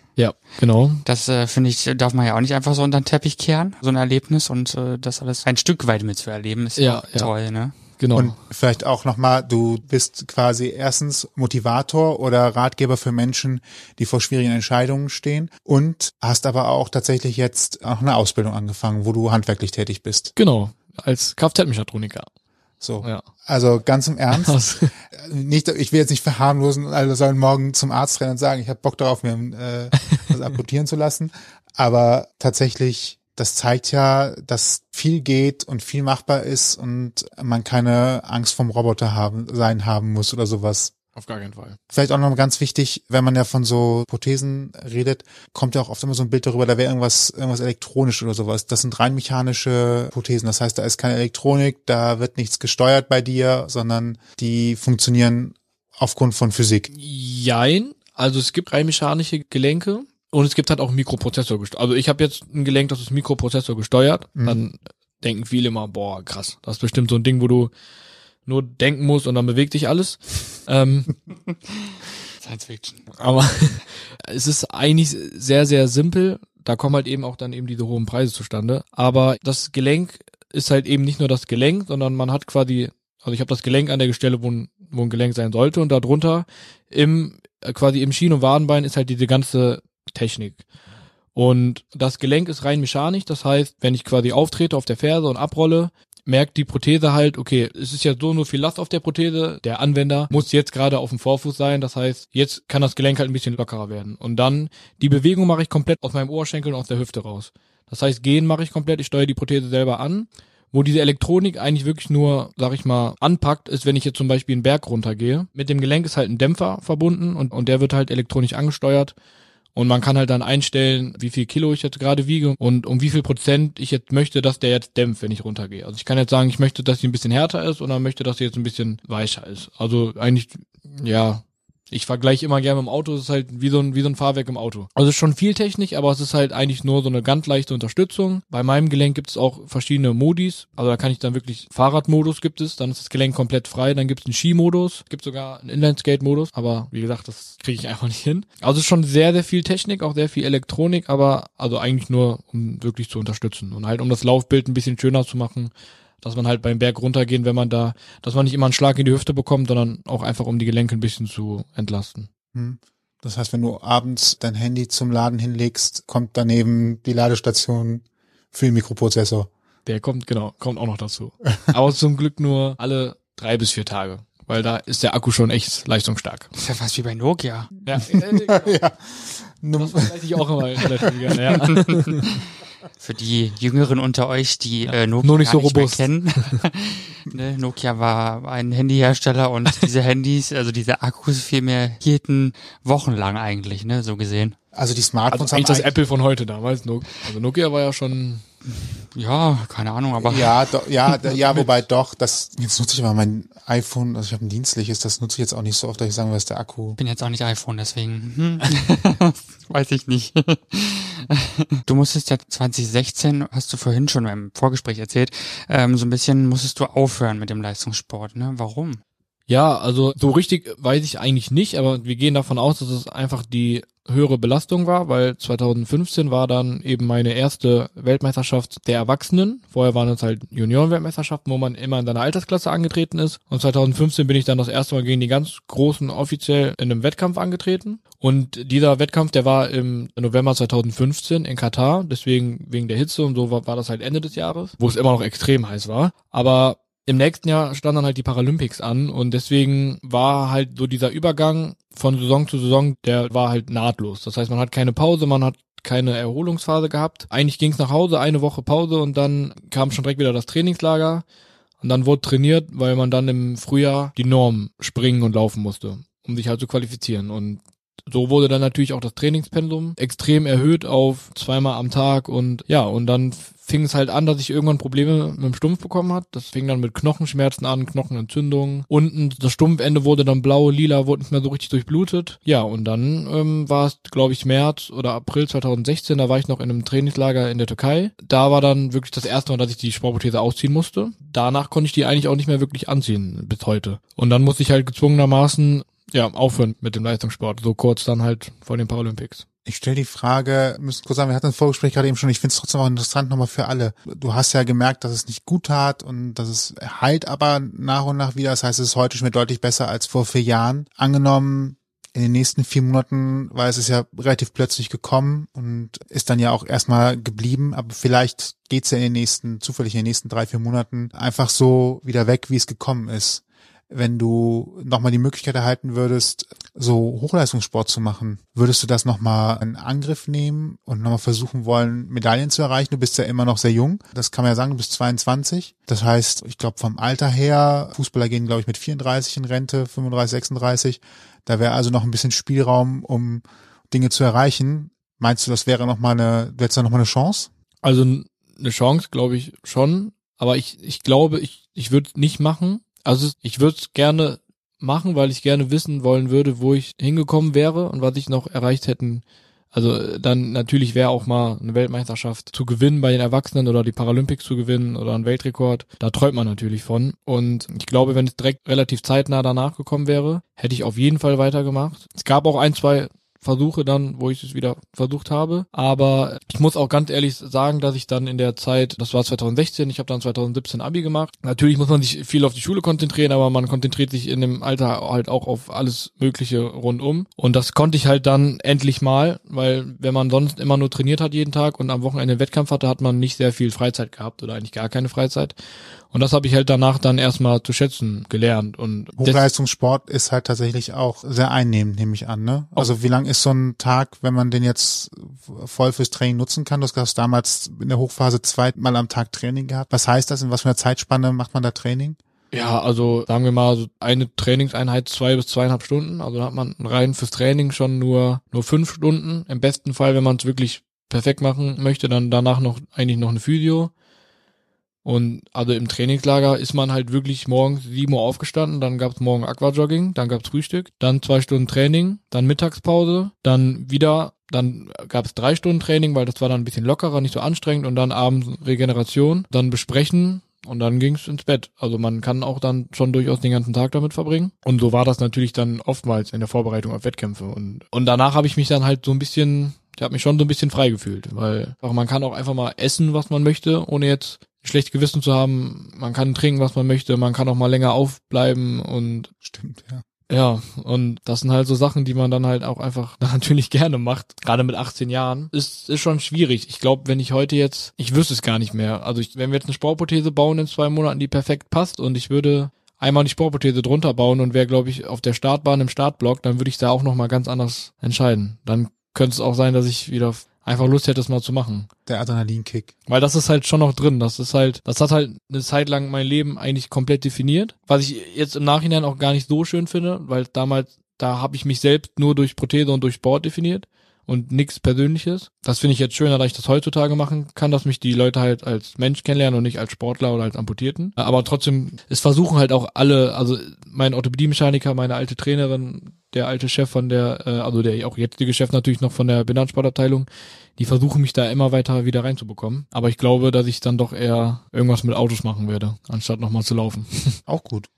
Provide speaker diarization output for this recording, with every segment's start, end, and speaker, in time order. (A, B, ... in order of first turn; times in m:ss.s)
0:00.2-0:01.0 A
0:01.0-0:07.8 B
0:06.8-0:07.3 A
0:08.0-0:08.3 A
0:08.2-0:20.3 C
0:20.4-0:22.3 A
0:22.8-0:24.6 C
0:24.3-0:24.9 A
0:25.1-0:40.9 C
0:41.2-0:41.8 A
0:41.9-0:56.9 C
0:56.9-1:07.7 A
1:08.5-1:11.2 A
1:12.4-1:13.2 B
1:13.2-1:30.6 A
1:31.4-1:59.1 A
1:59.8-2:35.7 A
2:36.2-2:42.3 A
2:42.5-2:49.5 C
2:49.9-2:56.5 A
2:56.6-2:57.7 B
2:57.8-2:58.8 A
2:57.9-3:01.3 C
2:59.8-3:02.2 A
3:01.5-3:02.5 B
3:03.0-3:14.6 B
3:04.9-3:06.0 A
3:14.7-3:15.9 C
3:15.3-3:18.4 A
3:19.1-3:20.6 B
3:20.2-3:27.0 C
3:27.0-3:39.0 B
3:39.5-4:21.2 A
4:21.8-4:59.4 A
4:59.7-5:47.5 C
5:47.8-6:35.5 A
6:36.1-6:39.4 A
6:39.2-6:52.2 C
6:52.5-7:03.9 A
7:05.0-7:39.3 A
7:39.4-7:40.0 C
7:40.3-8:01.9 A
8:02.1-8:02.9 C
8:03.1-8:37.4 A
8:37.5-8:37.9 C